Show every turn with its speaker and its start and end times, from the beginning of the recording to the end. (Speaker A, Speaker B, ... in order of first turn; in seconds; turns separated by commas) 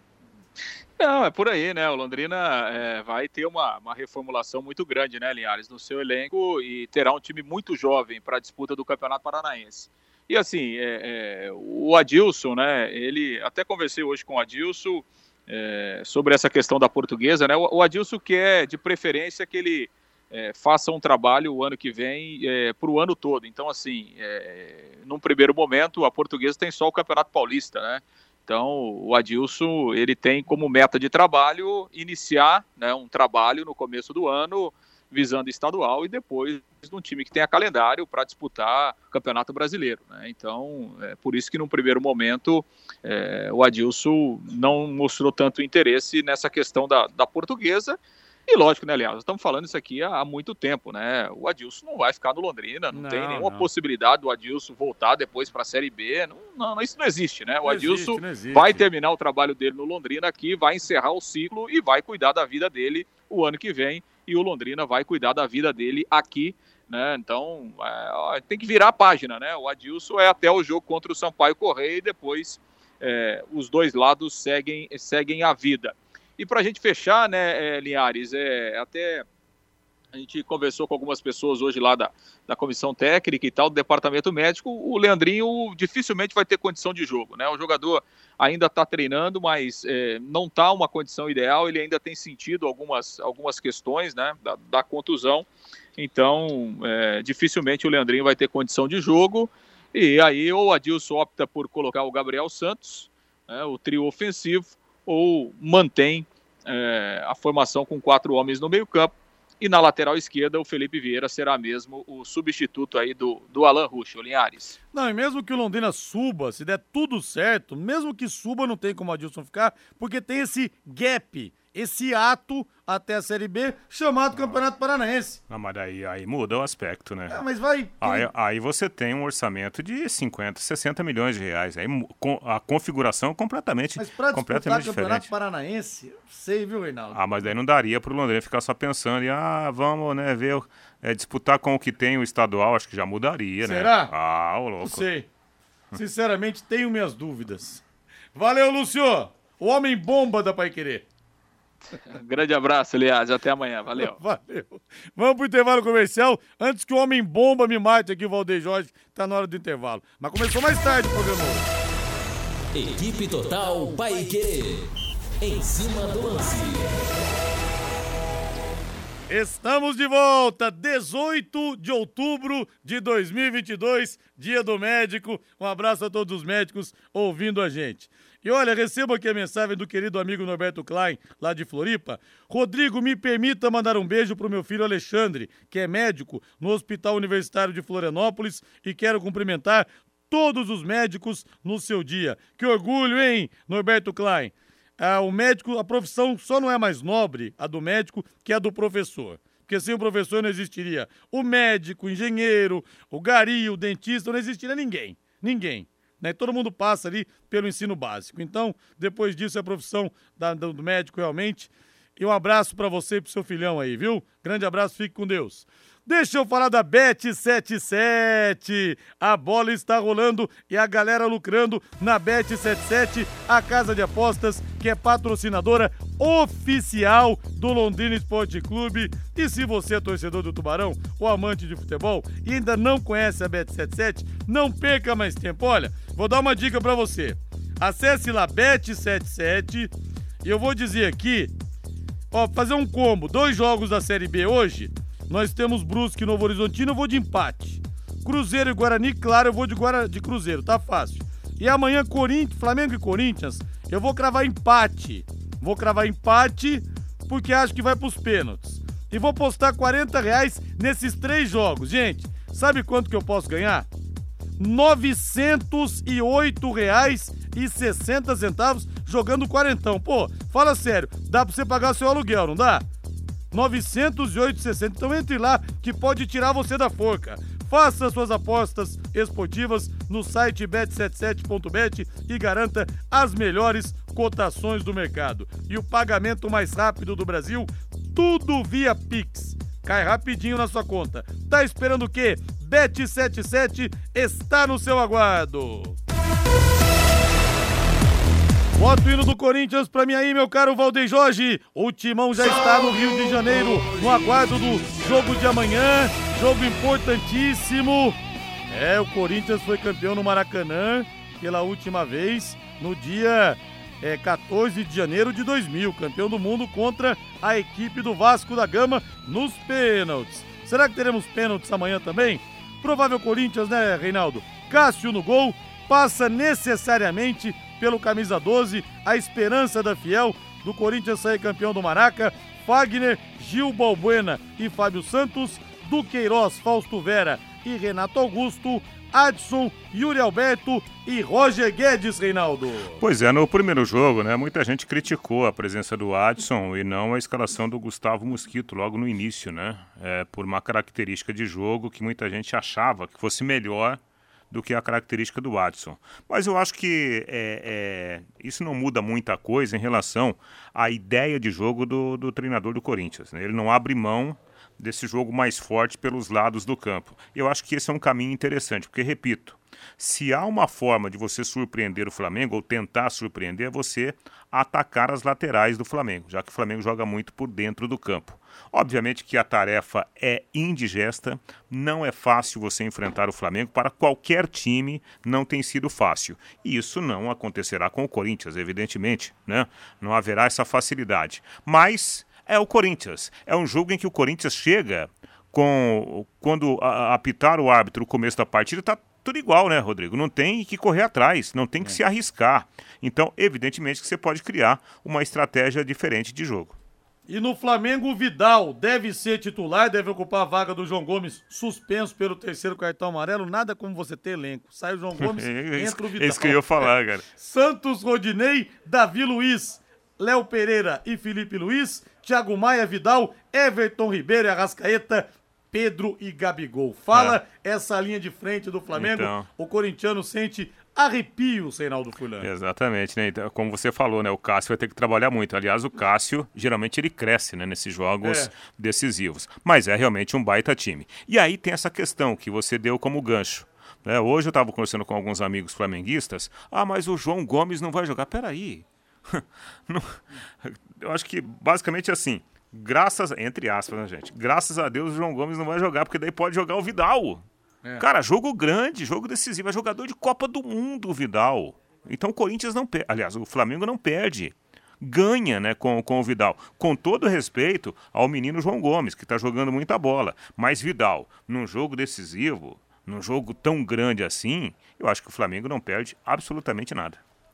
Speaker A: 1.0-79.2, Speaker B: 52.9-53.7, Speaker B: 57.6-58.8, Speaker A: 80.1-114.8, Speaker B: 114.9-125.4, Speaker C: 125.5-127.4, Speaker B: 127.3-128.3, Speaker C: 128.0-135.3, Speaker B: 134.0-137.2, Speaker C: 137.1-145.1, Speaker B: 143.6-144.1, Speaker B: 144.8-145.2, Speaker B: 145.9-147.8, Speaker B: 148.3-151.0, Speaker A: 151.9-154.2, Speaker B: 153.9-161.7, Speaker D: 162.7-164.9, Speaker D: 165.4-167.3, Speaker B: 169.3-239.9, Speaker B: 240.4-241.5, Speaker B: 242.3-263.9, Speaker B: 264.6-272.8, Speaker B: 273.5-296.0, Speaker B: 298.7-343.0, Speaker C: 343.0-406.8, Speaker B: 407.3-432.5, Speaker C: 415.2-417.2, Speaker C: 427.1-427.4, Speaker C: 428.9-429.5, Speaker C: 432.4-457.4, Speaker B: 438.2-438.5, Speaker C: 458.0-477.2